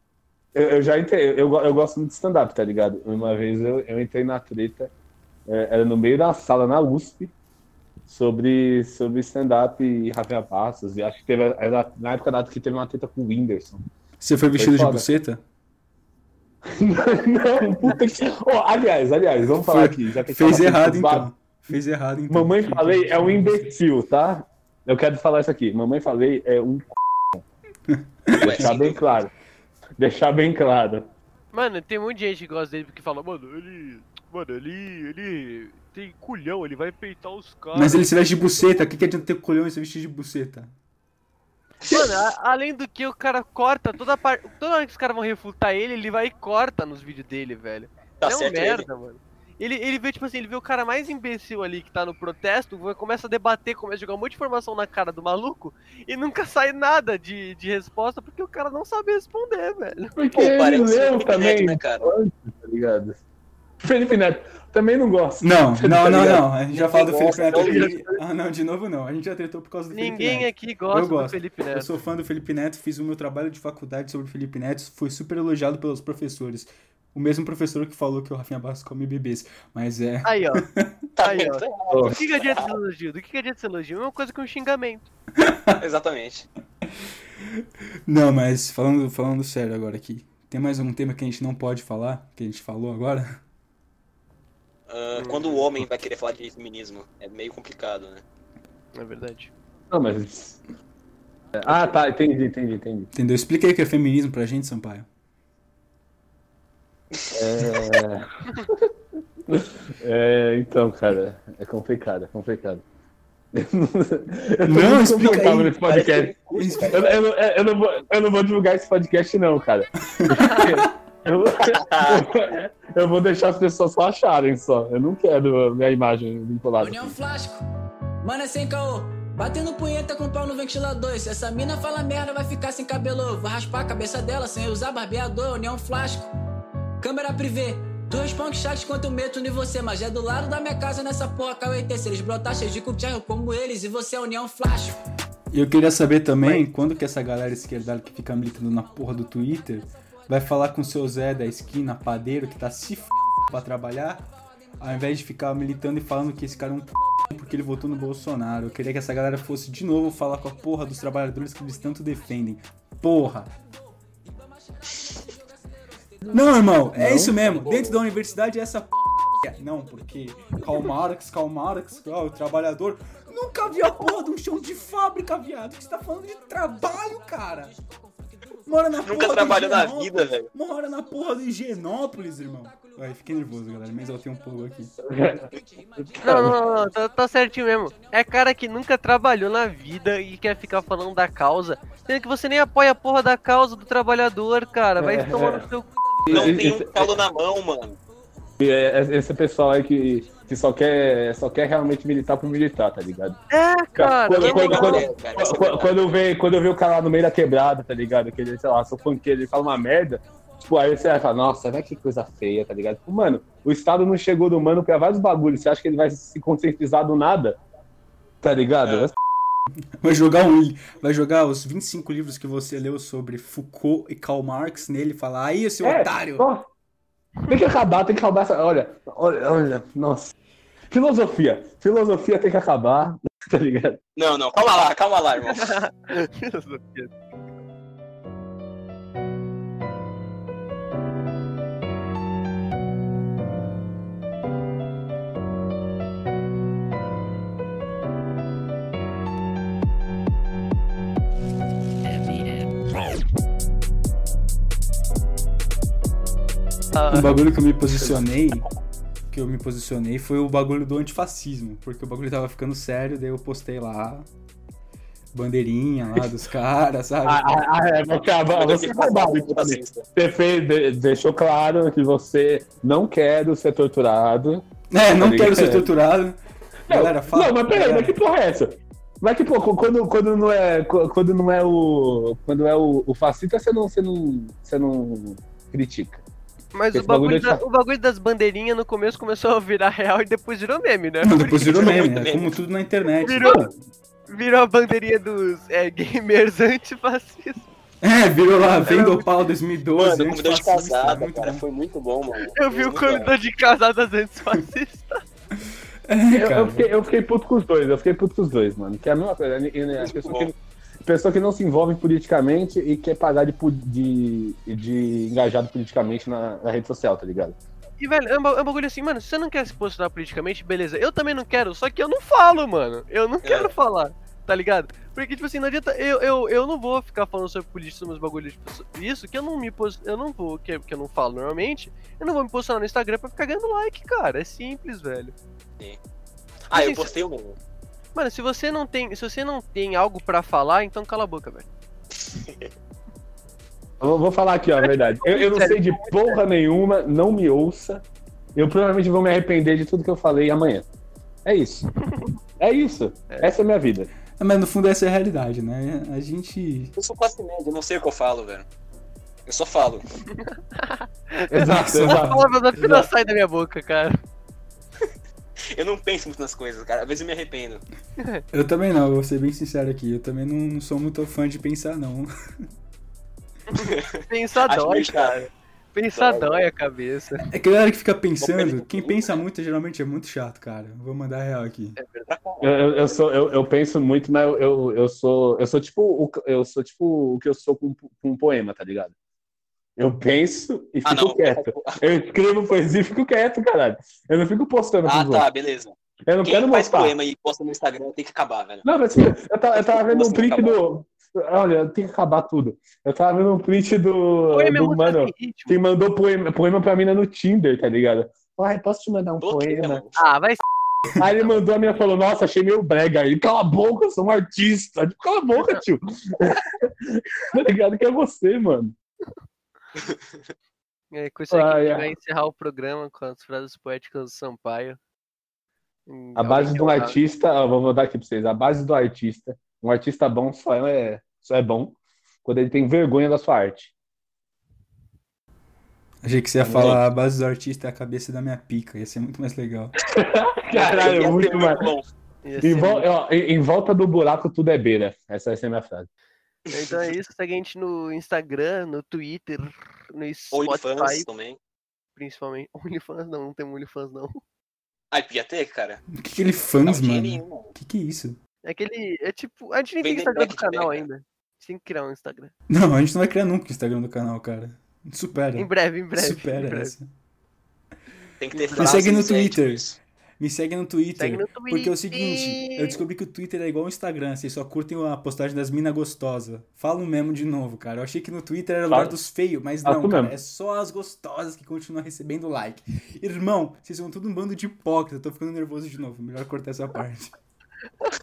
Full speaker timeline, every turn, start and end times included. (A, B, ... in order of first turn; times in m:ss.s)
0:00.5-0:04.9 A
0:05.5-0:07.3 A
0:08.1-0:13.8 A
0:14.2-0:15.4 B
0:14.5-0:15.1 A
0:16.7-0:21.3 A
0:19.6-0:23.7 B
0:22.3-0:27.4 A
0:27.9-0:28.7 B
0:28.4-0:29.0 C
0:28.5-0:29.3 A
0:30.0-0:31.1 A
0:31.5-0:38.1 D
0:37.7-0:40.7 B
0:41.8-0:42.1 C
0:41.9-1:00.1 D
0:48.2-0:48.9 C
1:00.2-1:03.2 A
1:00.3-1:02.1 C
1:03.8-1:06.5 A
1:05.4-1:21.0 B
1:06.7-1:07.9 C
1:07.4-1:08.0 A
1:09.9-1:11.9 D
1:20.2-1:20.6 D
1:21.2-1:22.7 C
1:21.2-1:25.1 D
1:21.9-1:22.2 A
1:25.4-1:25.8 B
1:25.8-1:26.5 C
1:27.5-1:33.3 B
1:34.9-1:38.2 C
1:35.2-1:35.7 D
1:38.9-1:39.5 D
1:39.9-1:40.6 A
1:41.6-1:43.1 A
1:43.1-1:45.0 B
1:47.1-1:47.8 C
1:47.3-1:48.2 A
1:49.5-1:52.8 A
1:53.5-2:07.2 A
1:54.6-1:55.8 B
1:55.2-1:57.0 C
1:56.5-1:56.9 B
2:00.1-2:00.6 B
2:00.3-2:00.6 D
2:01.6-2:02.2 C
2:06.8-2:07.6 E
2:08.2-2:16.3 E
2:17.0-2:25.0 E
2:25.5-2:34.3 B
2:34.8-2:43.5 B
2:46.3-2:57.7 B
2:47.0-2:47.3 A
2:58.6-3:04.9 B
2:59.0-3:00.5 C
3:05.0-3:06.6 A
3:06.2-3:15.9 D
3:15.0-3:15.6 A
3:16.2-3:17.2 A
3:16.3-3:18.0 C
3:18.6-3:23.4 A
3:23.5-3:25.1 D
3:24.0-3:37.6 A
3:24.4-3:26.1 C
3:38.4-3:39.1 A
3:38.8-3:39.1 C
3:40.0-3:46.5 B
3:45.8-3:46.6 A
3:47.5-3:50.3 A
3:50.9-3:54.0 A
3:54.2-3:55.8 C
3:55.5-3:57.1 D
4:16.9-4:17.3 D
4:17.1-4:18.6 B
4:19.3-4:24.3 B
4:25.3-4:27.6 B
4:27.2-4:34.6 A
4:28.4-4:30.0 C
4:34.9-4:36.4 B
4:35.2-4:35.9 A
4:36.9-4:38.2 B
4:36.9-4:46.2 A
4:46.7-4:52.0 D
4:46.9-4:47.6 A
4:51.2-4:53.7 B
4:51.6-4:52.6 C
4:53.2-4:53.7 D
4:54.3-4:57.7 D
4:58.0-5:01.6 B
4:58.8-4:59.2 D
5:00.0-5:03.3 C
5:02.5-5:05.1 D
5:06.1-5:06.8 B
5:06.3-5:17.5 A
5:10.0-5:10.5 C
5:18.0-5:35.3 D
5:23.4-5:23.7 C
5:36.7-5:37.6 C
5:36.7-5:37.1 D
5:38.1-5:41.7 D
5:42.2-5:42.7 C
5:44.0-5:48.0 A
5:44.8-5:46.4 D
5:48.6-5:50.9 A
5:51.4-5:51.9 A
5:52.6-5:54.1 A
5:54.4-5:56.9 B
5:57.0-5:58.6 C
5:59.5-6:00.0 C
6:00.5-6:01.0 D
6:01.5-6:03.0 A
6:01.5-6:02.4 B
6:01.6-6:04.2 D
6:05.8-6:07.8 C
6:08.5-6:12.3 B
6:13.8-6:15.4 C
6:13.8-6:17.4 D
6:16.1-6:16.7 C
6:17.5-6:22.0 B
6:18.4-6:19.4 C
6:22.0-6:22.3 D
6:22.3-6:23.0 C
6:22.6-6:29.1 A
6:30.0-6:35.5 A
6:31.0-6:32.1 C
6:35.0-6:38.8 C
6:36.3-6:37.2 A
6:38.8-6:50.0 A
6:39.7-6:40.8 C
6:44.5-6:45.8 D
6:49.4-6:50.2 C
6:50.2-6:50.6 D
6:51.2-6:58.9 A
6:55.6-6:55.8 D
7:01.1-7:05.0 D
7:01.5-7:02.1 A
7:06.1-7:07.2 D
7:06.4-7:13.9 A
7:16.2-7:19.9 B
7:16.6-7:16.9 A
7:20.1-7:21.9 A
7:20.7-7:22.1 C
7:22.4-7:23.1 D
7:22.6-7:26.1 A
7:26.7-7:27.0 C
7:26.7-7:31.3 D
7:30.5-7:31.6 C
7:32.2-7:34.4 D
7:35.1-7:36.0 C
7:36.2-7:38.4 B
7:36.8-7:37.7 C
7:38.6-7:42.5 D
7:40.0-7:41.0 C
7:42.7-7:47.1 B
7:45.5-7:47.0 D
7:48.4-7:50.0 C
7:48.5-7:49.1 D
7:48.8-8:07.4 B
7:51.2-7:53.0 D
7:58.9-7:59.1 A
7:59.8-8:00.3 A